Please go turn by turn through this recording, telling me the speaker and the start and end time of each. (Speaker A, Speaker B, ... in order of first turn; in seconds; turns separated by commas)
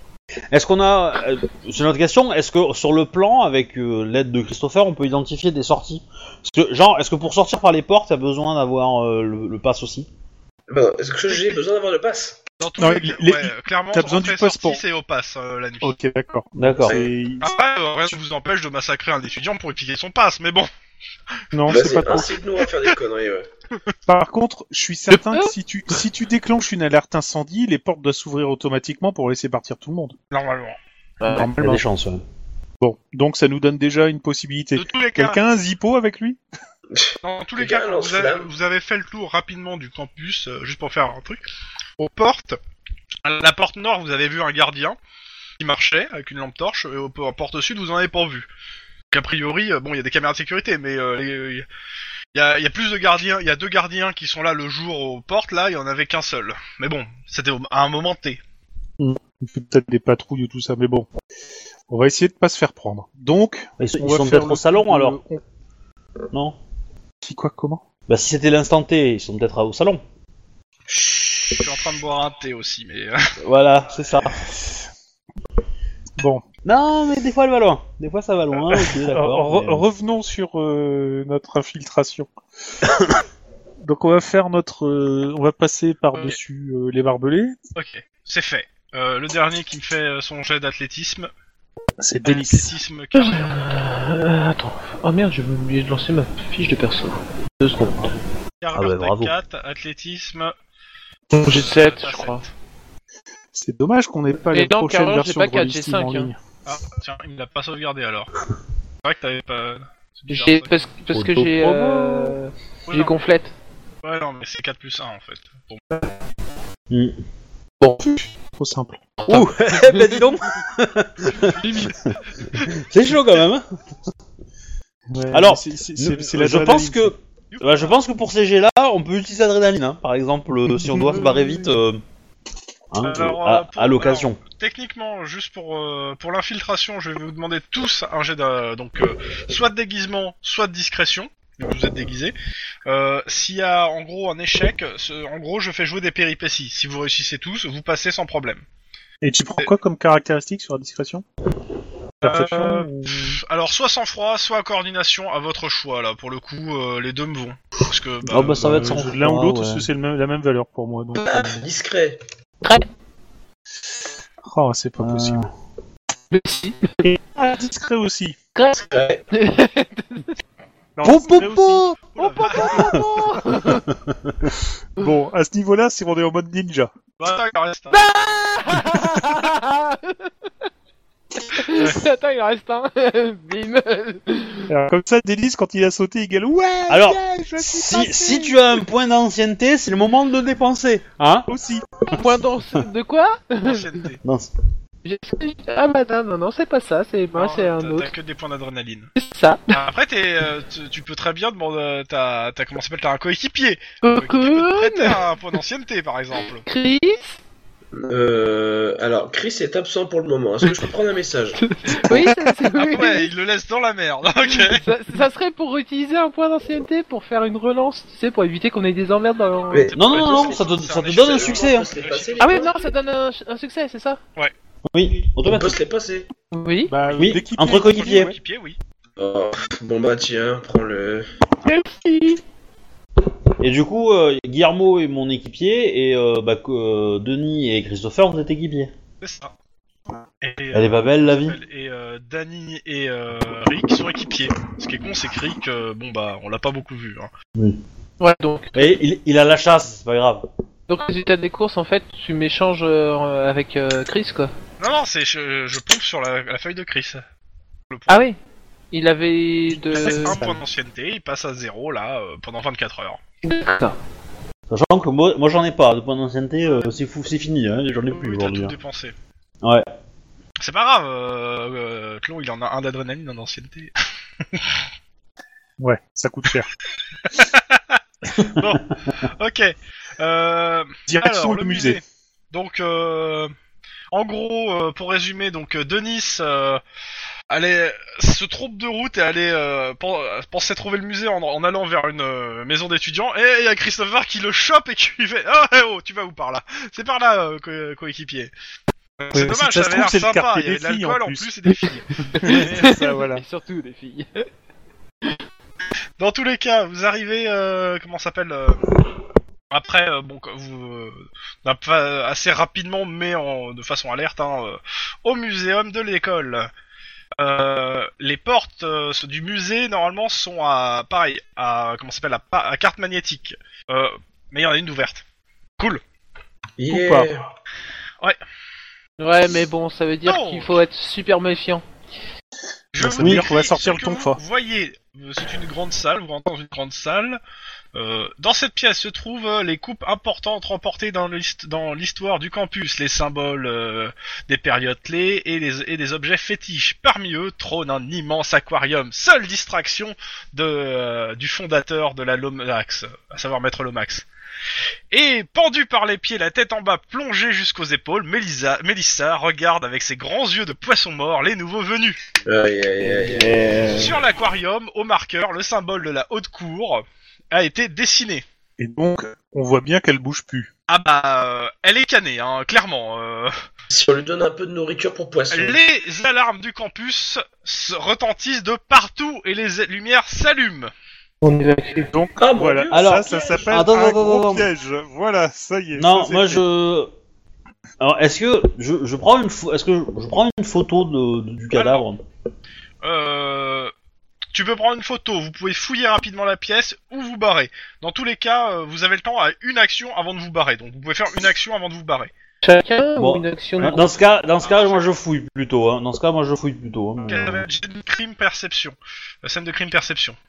Speaker A: 0.5-10.1, Speaker B: 10.7-12.4, Speaker C: 11.3-11.6, Speaker C: 12.6-15.9, Speaker D: 12.8-14.8, Speaker D: 15.8-17.5, Speaker A: 16.6-17.0, Speaker B: 16.8-17.1, Speaker C: 17.4-20.7, Speaker D: 21.5-22.3, Speaker B: 21.7-23.5, Speaker D: 24.1-30.2, Speaker E: 25.1-25.5, Speaker C: 30.3-30.8, Speaker E: 31.2-31.5, Speaker D: 31.3-31.8, Speaker A: 31.4-32.2, Speaker D: 32.8-36.4, Speaker C: 34.8-35.4, Speaker B: 36.9-38.5, Speaker C: 37.2-41.4, Speaker C: 42.0-42.6, Speaker C: 43.2-45.0, Speaker C: 45.6-48.5, Speaker C: 49.1-51.7, Speaker C: 52.3-58.4, Speaker D: 59.0-61.1, Speaker D: 61.9-65.4, Speaker A: 63.8-65.2, Speaker A: 66.3-66.6, Speaker D: 67.2-67.8, Speaker A: 68.1-70.0, Speaker B: 70.9-71.9, Speaker C: 71.5-73.3, Speaker A: 73.4-74.5, Speaker D: 76.2-76.4, Speaker A: 76.7-79.8, Speaker D: 78.9-82.3, Speaker D: 83.8-87.6, Speaker C: 87.8-91.3, Speaker D: 92.0-92.8, Speaker C: 92.2-93.6, Speaker E: 93.1-98.2, Speaker C: 98.6-100.5, Speaker A: 98.7-99.3, Speaker E: 101.3-102.4, Speaker C: 101.4-102.5, Speaker D: 103.5-106.4, Speaker E: 104.5-106.3, Speaker C: 106.7-108.3, Speaker C: 109.0-110.8, Speaker E: 110.3-113.5, Speaker A: 111.1-112.4, Speaker C: 112.9-113.2, Speaker C: 114.0-115.9, Speaker A: 116.9-117.2, Speaker E: 117.8-118.2, Speaker D: 118.6-119.0, Speaker E: 119.2-120.2, Speaker A: 119.3-123.7, Speaker E: 121.3-122.0, Speaker C: 122.4-123.5, Speaker D: 125.1-127.1, Speaker A: 125.3-132.0, Speaker C: 127.5-128.0, Speaker D: 130.7-131.7, Speaker A: 132.9-134.4, Speaker C: 133.0-142.3, Speaker C: 142.9-148.6, Speaker D: 149.2-151.2, Speaker C: 152.2-159.1, Speaker D: 152.2-153.4, Speaker A: 158.3-159.8, Speaker D: 158.6-161.6, Speaker B: 161.2-162.2, Speaker D: 164.4-165.4, Speaker A: 165.0-165.5, Speaker E: 166.3-167.0, Speaker D: 167.0-168.4, Speaker E: 168.6-170.3, Speaker B: 168.7-169.2, Speaker D: 170.9-171.9, Speaker A: 171.0-172.0, Speaker C: 172.1-172.9, Speaker E: 172.2-173.9, Speaker A: 172.7-173.1, Speaker A: 173.7-174.5, Speaker D: 175.0-176.9, Speaker C: 177.2-178.0, Speaker E: 177.9-180.3, Speaker E: 181.4-184.7, Speaker C: 181.7-182.0, Speaker D: 184.7-188.5, Speaker A: 186.9-191.5, Speaker D: 191.5-191.9, Speaker E: 192.1-194.0, Speaker C: 193.6-194.2, Speaker A: 194.2-194.5, Speaker E: 195.1-198.1, Speaker C: 197.3-199.1, Speaker E: 199.2-199.7, Speaker C: 199.7-206.7, Speaker E: 204.0-205.2, Speaker E: 206.7-207.4, Speaker B: 208.0-211.6, Speaker E: 211.6-213.3, Speaker C: 212.7-214.9, Speaker E: 214.5-219.9, Speaker B: 219.7-220.6, Speaker C: 219.9-222.8, Speaker A: 219.9-221.9, Speaker B: 221.2-222.8, Speaker E: 222.4-224.2, Speaker A: 224.9-225.8, Speaker B: 225.4-226.3, Speaker E: 226.5-226.9, Speaker D: 226.9-228.4, Speaker A: 227.2-228.3, Speaker C: 227.8-228.8, Speaker B: 229.2-231.3, Speaker E: 231.6-232.4, Speaker A: 233.6-238.9, Speaker C: 239.2-239.5, Speaker C: 240.4-247.3, Speaker A: 240.7-241.6, Speaker A: 247.6-247.8, Speaker E: 248.2-248.8, Speaker A: 248.8-250.4, Speaker E: 250.9-254.5, Speaker C: 254.8-257.2, Speaker C: 257.9-258.3, Speaker E: 258.1-258.4, Speaker E: 258.9-260.4, Speaker D: 259.7-260.6, Speaker C: 259.9-263.2, Speaker E: 263.4-264.0, Speaker A: 264.7-268.7, Speaker C: 268.1-269.1, Speaker C: 270.6-273.9, Speaker C: 274.5-274.8, Speaker D: 275.8-276.7, Speaker C: 277.3-283.5, Speaker D: 281.1-282.0, Speaker C: 284.1-286.8, Speaker C: 287.5-298.5, Speaker C: 299.2-302.9, Speaker D: 299.3-301.5, Speaker E: 302.3-304.5, Speaker D: 302.4-303.4, Speaker C: 306.2-308.9, Speaker C: 309.7-316.7, Speaker C: 317.4-325.2, Speaker B: 326.8-327.5, Speaker D: 326.9-327.3, Speaker E: 329.2-331.8, Speaker C: 330.2-330.8, Speaker C: 332.9-337.4, Speaker D: 333.0-334.4, Speaker A: 333.2-333.5, Speaker C: 337.9-354.3, Speaker C: 355.1-362.2, Speaker B: 362.5-363.9, Speaker A: 363.0-364.1, Speaker C: 363.9-368.4, Speaker D: 368.8-370.7, Speaker C: 370.9-373.6, Speaker B: 373.9-375.8, Speaker C: 375.5-380.9, Speaker E: 381.4-382.1, Speaker D: 382.1-386.6, Speaker B: 382.4-383.8, Speaker A: 382.9-384.7, Speaker A: 386.0-387.1, Speaker A: 388.0-392.2, Speaker C: 391.7-392.1, Speaker C: 393.0-393.9, Speaker C: 394.5-402.3, Speaker E: 402.6-404.1, Speaker A: 403.2-407.6, Speaker C: 404.6-405.1, Speaker C: 407.3-410.4